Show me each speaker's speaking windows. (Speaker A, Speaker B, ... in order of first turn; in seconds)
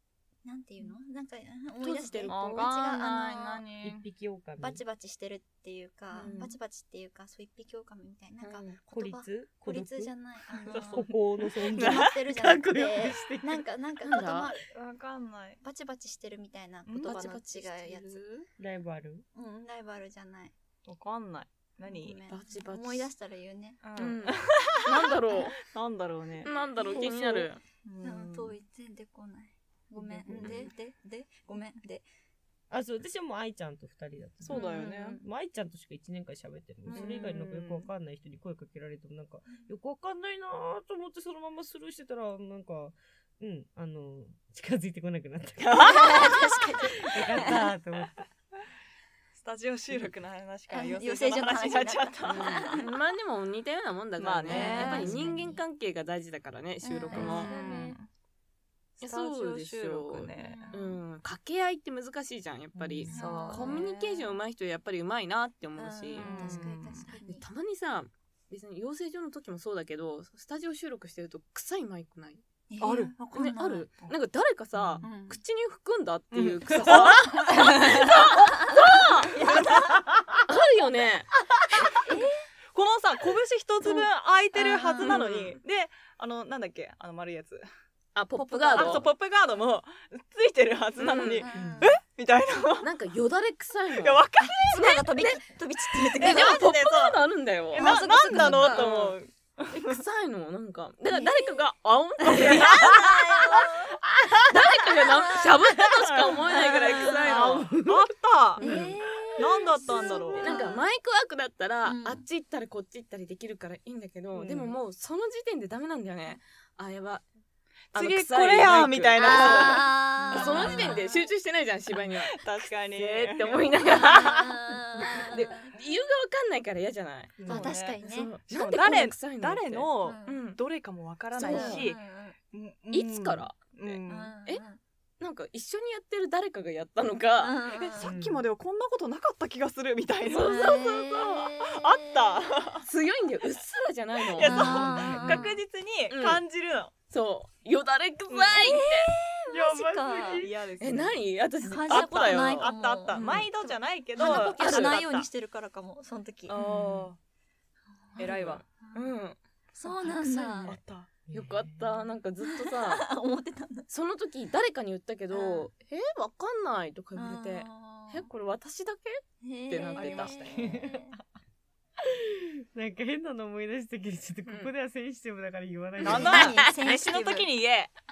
Speaker A: 0.4-3.6, 4.6-11.1, 11.7-14.6, 15.6-18.2, 19.3-20.5, 21.8-23.8, 28.0-32.0, 34.5-35.1, 45.7-47.6, 50.7-52.9, 54.5-55.6, 56.8-58.0, 60.4-61.0, 63.1-64.3, 65.8-67.4, 72.7-73.9, 75.0-75.4, 77.4-77.8, 82.0-82.3, 84.5-85.2, 88.3-89.1, 91.2-92.0, 94.4-96.7, 97.7-98.9, 101.1-101.6, 102.2-104.0, 104.9-105.6, 108.6-110.8, 111.8-112.2, 119.2-121.2, 123.9-125.7, 127.5-128.3, 130.0-130.4, 131.3-132.4, 134.1-134.8, 137.4-138.1, 140.4-142.4, 144.4-145.5, 148.6-150.4, 151.6-156.6, 158.0-159.1, 159.7-160.8, 162.4-163.9, 165.3-165.7, 167.2-168.3, 169.4-171.1, 176.1-177.5
Speaker B: 1.8-2.6, 6.2-6.6, 8.4-8.8, 14.0-14.5, 17.0-18.4, 22.3-23.1, 23.9-25.6, 26.4-27.6, 36.9-37.2, 52.2-57.5, 59.0-66.7, 67.2-72.4, 73.3-79.5, 80.5-81.3, 84.9-85.6, 88.1-89.1, 91.0-91.5, 92.8-94.2, 96.2-99.2, 99.8-103.6, 104.5-107.7, 108.6-108.9, 110.3-117.2, 117.9-124.5, 125.0-130.6, 131.3-131.9, 132.9-134.6, 135.2-137.6, 140.3-141.4, 142.8-145.0, 146.1-146.4, 147.1-149.1, 150.8-153.5, 154.2-155.0, 156.6-157.1, 158.2-159.4, 160.1-160.8, 161.3-163.1, 163.9-170.6, 174.4-174.7, 176.0-176.7
Speaker C: 2.3-4.0, 10.7-11.1, 11.7-12.1, 14.6-15.6, 16.9-17.2, 20.9-22.2, 23.8-28.5, 30.3-30.7, 34.4-35.2, 36.9-37.9, 45.7-46.4, 49.3-52.8, 54.2-55.3, 57.1-58.1, 59.0-60.8, 63.0-63.8, 66.2-67.1, 72.8-74.1, 74.8-75.1, 76.3-80.0, 82.7-87.7, 88.7-92.9, 94.0-95.1, 96.1-97.2, 97.7-100.0, 102.2-104.6, 106.1-108.6, 109.4-110.5, 117.9-121.1, 122.0-124.6, 127.4-134.3, 137.9-140.8, 141.5-142.9, 144.3-146.9, 148.3-148.8, 149.9-151.2, 151.8-155.3, 156.5-157.2, 158.2-158.6, 159.8-161.1, 170.0-170.9, 176.0-177.9
Speaker D: 3.8-4.8, 8.9-10.1, 10.7-13.7, 18.6-19.2, 29.9-30.7, 32.7-48.3, 62.8-63.2, 79.9-80.4, 91.5-92.0, 107.2-110.2, 114.3-114.8, 127.4-127.7, 138.0-138.4, 144.4-145.6, 149.5-150.6, 161.2-162.0, 170.5-171.2, 172.0-176.6